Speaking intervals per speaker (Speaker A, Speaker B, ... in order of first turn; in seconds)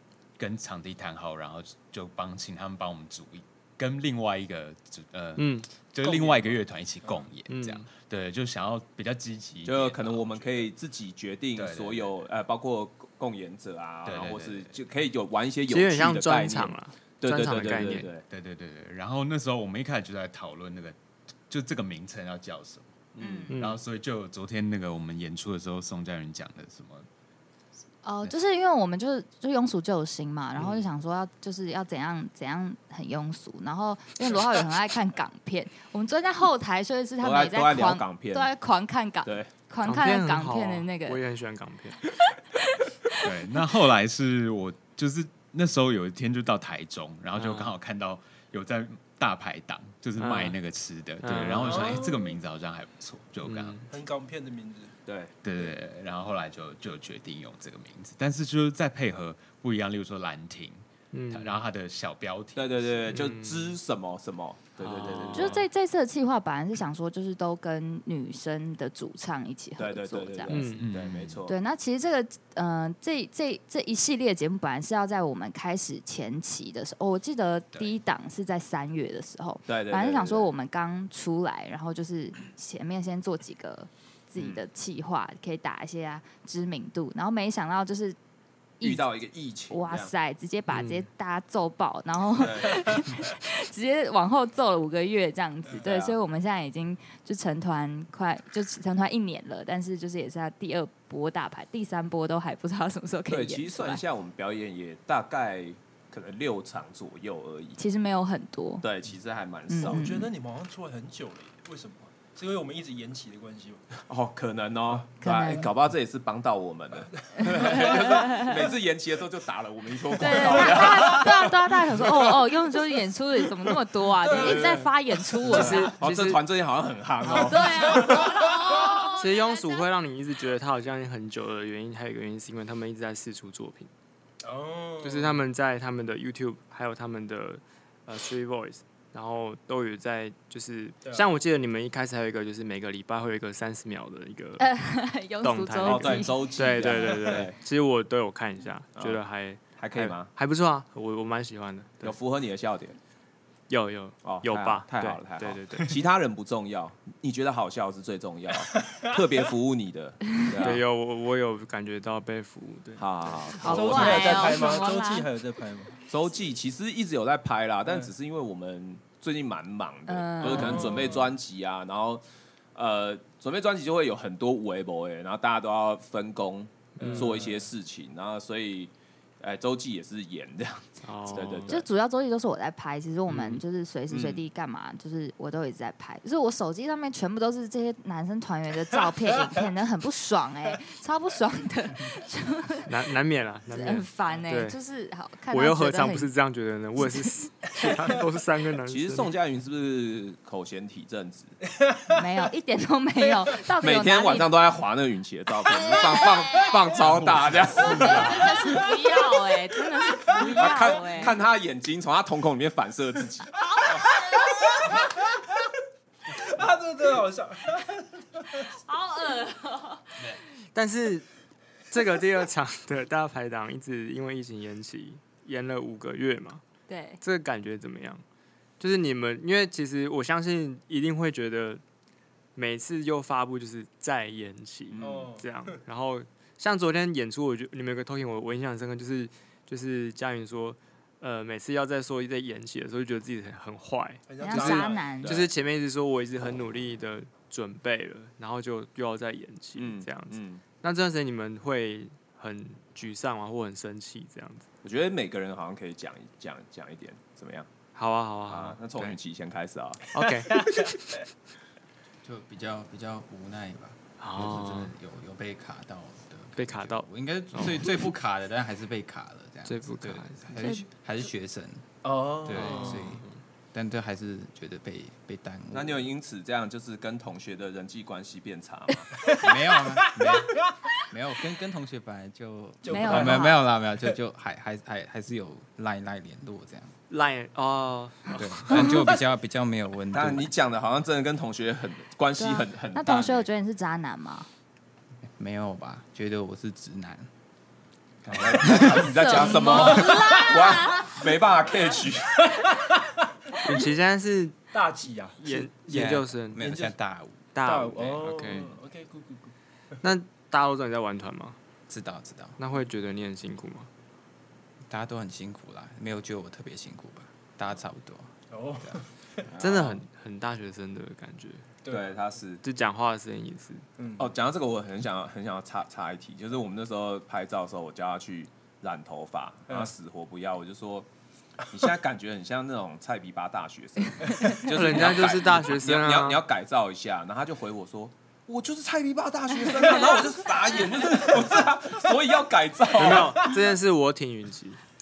Speaker A: 0.4-10.7, 11.6-12.1, 14.0-14.7, 18.3-21.0, 21.5-27.1, 43.2-53.9, 55.4-63.0, 70.7-71.4, 207.0-208.2
Speaker B: 5.4-5.7, 7.5-7.9, 15.7-18.1, 23.5-23.8, 39.8-42.0, 47.4-47.7, 50.2-50.6, 51.2-52.1, 53.4-53.9, 61.1-61.6, 63.1-63.8, 64.8-65.6, 70.5-70.8, 90.7-91.1, 125.5-126.4, 129.2-133.9, 135.0-144.7, 145.4-152.2, 153.7-156.0, 160.6-163.7, 177.0-177.3, 181.0-181.8, 183.3-183.6, 192.9-194.8, 195.5-199.3, 220.7-221.3, 221.9-226.6, 227.2-228.2, 228.8-231.8, 232.6-254.7, 257.9-259.2, 260.1-261.0, 264.2-264.9, 266.6-267.9, 269.7-270.5, 272.5-273.3, 287.1-289.0, 303.6-304.6, 305.4-306.8, 307.5-308.7, 310.0-311.6, 312.6-313.9, 319.6-321.7, 322.6-323.8, 334.5-336.4, 342.9-344.8
Speaker C: 7.0-7.3, 51.6-52.3, 53.9-54.9, 109.8-113.8, 117.2-117.5, 120.4-121.0, 124.2-124.9, 125.5-125.9, 127.9-129.1, 134.4-135.4, 158.7-159.1, 163.6-166.0, 170.5-171.2, 177.0-177.7, 201.7-202.2, 210.2-210.6, 214.4-215.7, 216.3-218.6, 235.0-235.8, 244.3-245.1, 260.5-260.8, 272.0-273.0, 279.2-279.5, 280.0-280.6, 282.8-283.6, 300.1-300.4, 302.4-303.8, 304.7-305.4, 306.6-306.9, 307.6-309.5, 318.5-319.5, 321.8-322.1, 324.0-324.3
Speaker D: 9.6-18.2, 23.1-23.5, 37.2-38.5, 55.0-55.4, 62.5-65.6, 69.8-71.5, 79.7-80.5, 84.4-84.6, 88.8-90.1, 92.4-92.8, 95.7-96.2, 103.3-107.8, 108.8-110.0, 113.9-122.3, 124.3-124.9, 125.4-128.4, 145.8-147.6, 149.8-150.3, 152.0-152.9, 154.2-160.8, 163.0-164.5, 166.1-172.2, 172.7-181.8, 184.1-184.4, 198.9-201.6, 203.8-208.5, 210.4-213.5, 234.9-235.3, 245.2-245.5, 249.8-250.6, 254.8-257.7, 258.5-260.1, 275.7-279.1, 290.1-293.5, 298.2-302.6, 319.5-320.0, 321.9-322.6, 324.2-331.1, 331.7-343.5
Speaker E: 23.2-23.6, 28.0-41.2, 65.3-70.7, 71.5-88.2, 88.8-89.0, 89.7-104.0, 107.8-108.8, 109.7-110.3, 115.2-115.7, 117.4-118.6, 120.2-125.9, 127.2-129.9, 144.6-147.4, 163.6-165.3, 170.1-171.1, 181.7-192.9, 193.7-196.3, 202.1-204.5, 205.7-206.9, 207.7-211.3, 213.7-214.9, 218.7-220.4, 226.9-227.2, 244.4-245.3, 270.6-270.8, 282.9-283.6, 292.4-294.5, 298.8-301.1
Speaker F: 262.2-276.1, 279.4-286.9, 288.3-290.5, 295.3-297.3, 298.4-298.9, 305.5-307.5, 311.9-312.6, 314.9-319.0